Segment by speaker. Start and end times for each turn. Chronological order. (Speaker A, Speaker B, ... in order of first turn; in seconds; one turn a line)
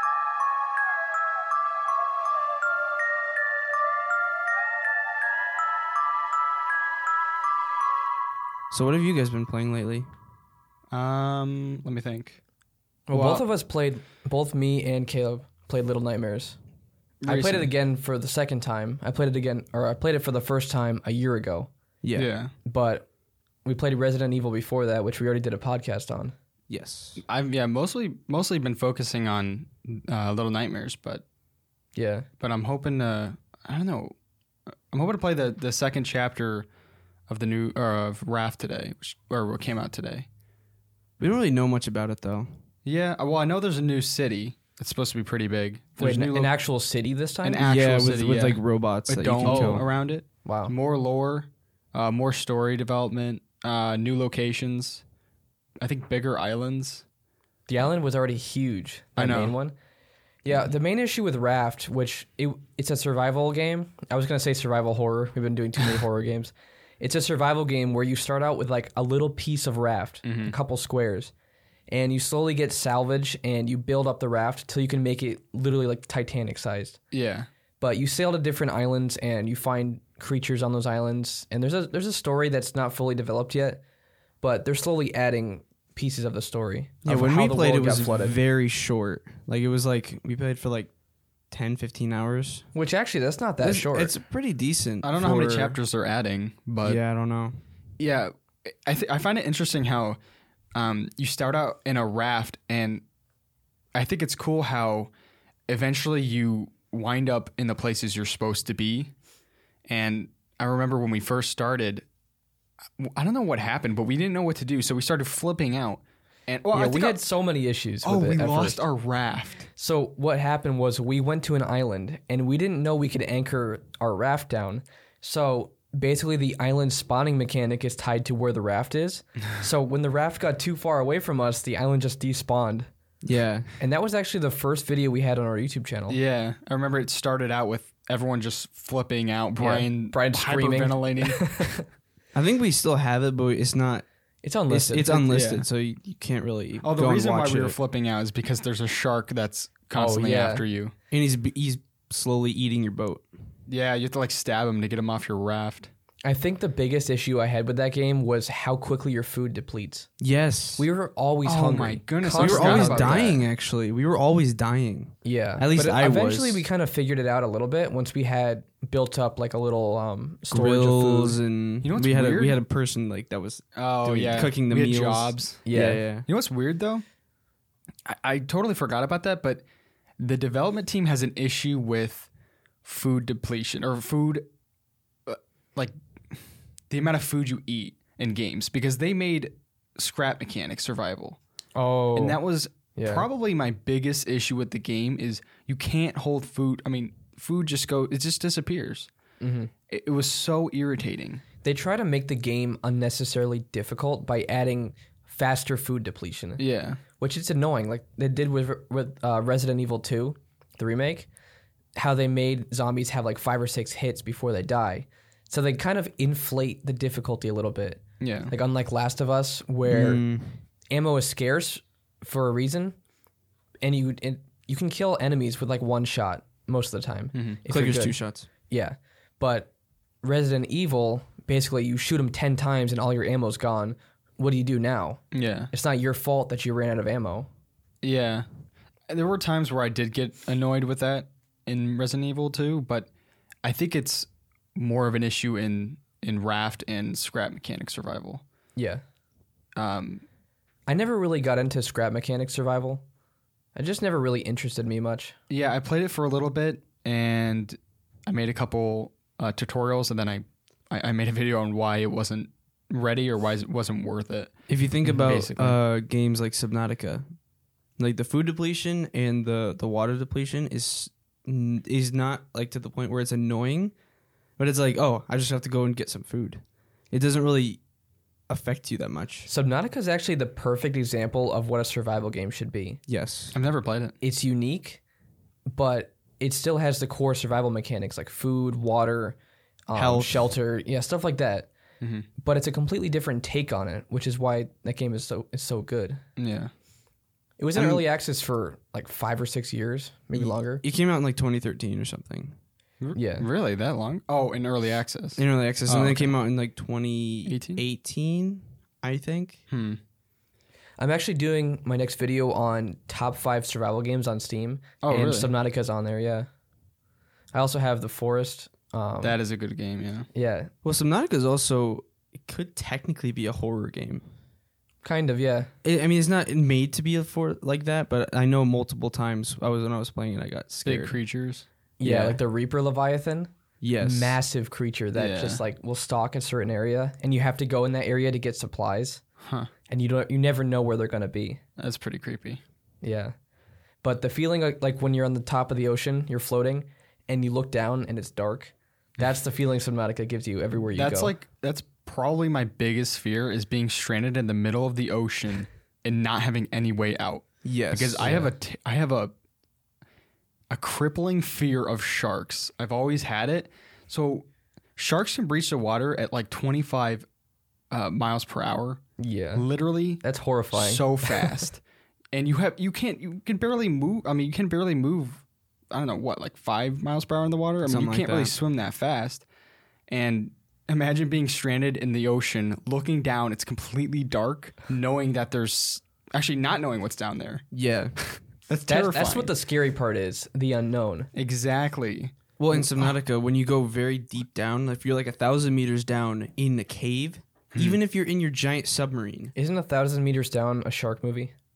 Speaker A: 8.7-10.1
Speaker B: 10.9-12.4
Speaker C: 13.1-16.6
Speaker B: 13.1-13.4
Speaker B: 17.2-17.7
Speaker C: 17.3-21.7
Speaker A: 22.0-22.3
Speaker B: 22.2-22.5
Speaker C: 22.6-23.1
Speaker C: 23.6-26.4
Speaker A: 26.7-27.2
Speaker B: 27.2-31.2
Speaker C: 31.9-32.3
Speaker B: 32.4-34.1
Speaker B: 34.9-36.7
Speaker B: 37.3-40.3
Speaker A: 41.2-42.6
Speaker B: 42.9-46.5
Speaker C: 46.0-47.6
Speaker B: 47.4-55.0
Speaker A: 47.6-49.9
Speaker C: 49.4-49.9
Speaker C: 50.5-50.7
Speaker B: 55.8-57.0
Speaker C: 57.7-59.7
Speaker B: 59.2-59.6
Speaker C: 60.5-71.3
Speaker B: 70.3-70.6
Speaker C: 71.9-77.0
Speaker B: 77.1-77.5
Speaker C: 77.8-83.8
Speaker C: 84.4-88.4
Speaker A: 87.0-90.9
Speaker A: 91.5-92.7
Speaker C: 92.7-94.1
Speaker A: 93.6-95.8
Speaker B: 95.0-97.0
Speaker A: 96.8-97.6
Speaker B: 98.0-100.2
Speaker B: 100.8-103.0
Speaker B: 104.0-105.1
Speaker B: 105.7-109.1
Speaker B: 109.9-112.1
Speaker B: 113.0-117.2
Speaker C: 116.7-118.8
Speaker B: 118.0-119.7
Speaker C: 119.8-132.9
Speaker A: 133.2-133.7
Speaker C: 133.8-136.2
Speaker B: 136.1-141.8
Speaker C: 139.6-141.8
Speaker A: 142.3-144.1
Speaker C: 144.4-145.3
Speaker A: 144.7-147.8
Speaker B: 145.3-145.7
Speaker B: 146.8-150.9
Speaker C: 149.9-150.6
Speaker A: 151.1-153.3
Speaker B: 153.7-155.9
Speaker C: 156.2-160.1
Speaker A: 160.2-160.9
Speaker C: 160.8-163.2
Speaker B: 161.4-163.5
Speaker A: 162.4-166.7
Speaker C: 165.2-171.4
Speaker A: 170.5-176.3
Speaker B: 171.8-172.6
Speaker B: 173.8-175.6
Speaker C: 175.7-176.0
Speaker B: 176.3-177.0
Speaker B: 178.1-179.7
Speaker B: 180.2-182.3
Speaker B: 182.8-184.5
Speaker B: 185.3-185.9
Speaker B: 186.9-191.4
Speaker C: 191.8-192.4
Speaker B: 192.2-199.1
Speaker C: 193.0-193.3
Speaker C: 199.4-199.7
Speaker B: 199.9-201.4
Speaker C: 201.6-206.6
Speaker B: 206.6-207.0
Speaker C: 207.2-211.3
Speaker C: 212.0-220.2
Speaker B: 218.2-218.5
Speaker A: 219.9-220.6
Speaker C: 220.9-222.9
Speaker C: 223.8-228.2
Speaker B: 227.3-227.6
Speaker A: 227.7-228.5
Speaker C: 228.7-229.7
Speaker C: 230.2-235.2
Speaker B: 235.3-235.7
Speaker C: 235.7-237.5
Speaker B: 238.0-238.5
Speaker B: 239.1-243.1
Speaker B: 243.6-248.4
Speaker C: 248.8-249.0
Speaker B: 249.8-250.2
Speaker C: 250.9-253.0
Speaker C: 253.8-255.3
Speaker B: 255.5-265.8
Speaker A: 264.7-267.3
Speaker A: 268.0-273.9
Speaker A: 274.6-277.8
Speaker A: 278.5-279.5
Speaker C: 279.5-283.0
Speaker A: 283.1-283.6
Speaker B: 283.5-284.2
Speaker C: 284.2-285.0
Speaker C: 285.7-289.4
Speaker C: 289.9-291.7
Speaker A: 289.9-290.5
Speaker B: 292.0-292.3
Speaker C: 292.4-296.2
Speaker B: 296.4-296.7
Speaker C: 297.6-300.8
Speaker B: 297.8-298.0
Speaker A: 300.3-302.6
Speaker B: 303.0-306.4
Speaker C: 303.1-303.5
Speaker A: 305.4-309.6
Speaker B: 307.5-307.8
Speaker B: 309.7-310.0
Speaker C: 311.0-316.5
Speaker B: 315.0-315.5
Speaker C: 317.5-319.4
Speaker B: 319.2-320.3
Speaker C: 320.4-320.7
Speaker A: 320.8-324.2
Speaker C: 325.0-325.7
Speaker A: 325.8-331.2
Speaker B: 330.9-331.7
Speaker C: 332.0-333.5
Speaker A: 332.0-332.4
Speaker A: 333.8-334.4
Speaker C: 334.0-339.2
Speaker B: 335.1-335.6
Speaker B: 339.4-339.7
Speaker C: 339.9-341.6
Speaker B: 341.8-342.6
Speaker C: 343.0-343.3
Speaker C: 344.0-351.3
Speaker B: 350.9-359.3
Speaker A: 357.6-358.4
Speaker C: 358.2-358.5
Speaker B: 360.7-367.3
Speaker B: 367.9-369.0
Speaker C: 369.2-369.7
Speaker B: 369.5-370.2
Speaker C: 370.2-371.6
Speaker B: 370.7-371.8
Speaker B: 372.3-379.5
Speaker A: 377.8-378.5
Speaker B: 380.1-387.6
Speaker A: 387.7-388.2
Speaker B: 388.2-389.5
Speaker C: 388.9-391.3
Speaker B: 391.3-393.1
Speaker A: 392.6-399.5
Speaker B: 397.7-398.0
Speaker C: 399.6-401.5